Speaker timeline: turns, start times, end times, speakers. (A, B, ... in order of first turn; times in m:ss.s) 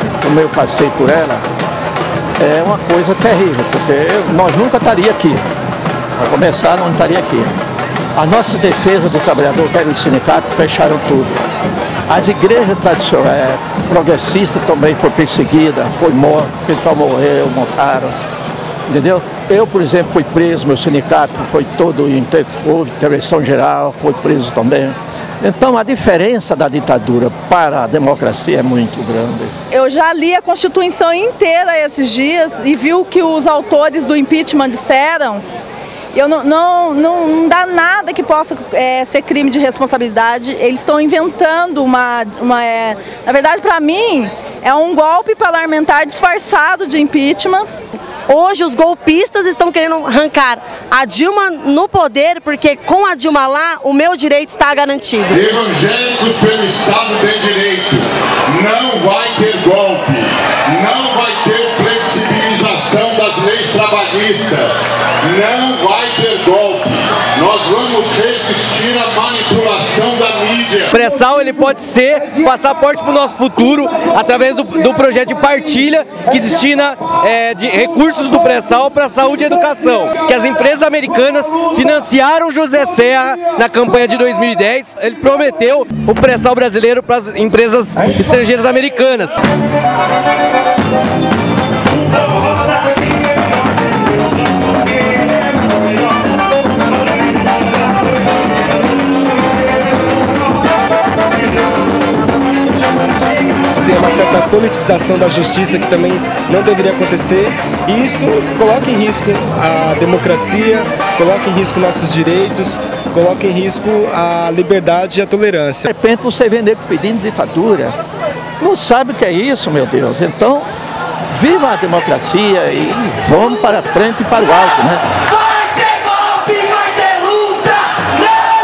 0:00.2-0:01.4 A
0:02.4-0:05.4 A
0:06.2-0:07.6 A
0:08.2-0:11.3 A
0:12.1-0:18.1 A
0:18.9-0:29.5 A
0:29.7-0:35.4 B
0:36.1-0:47.7 B
0:48.3-0:55.4 C
0:55.3-1:10.9 D
1:10.9-1:29.4 E
1:43.8-1:55.9 F
1:55.9-1:58.0 A
1:58.6-2:00.7 A
2:01.3-2:05.0 A
2:05.8-2:07.7 C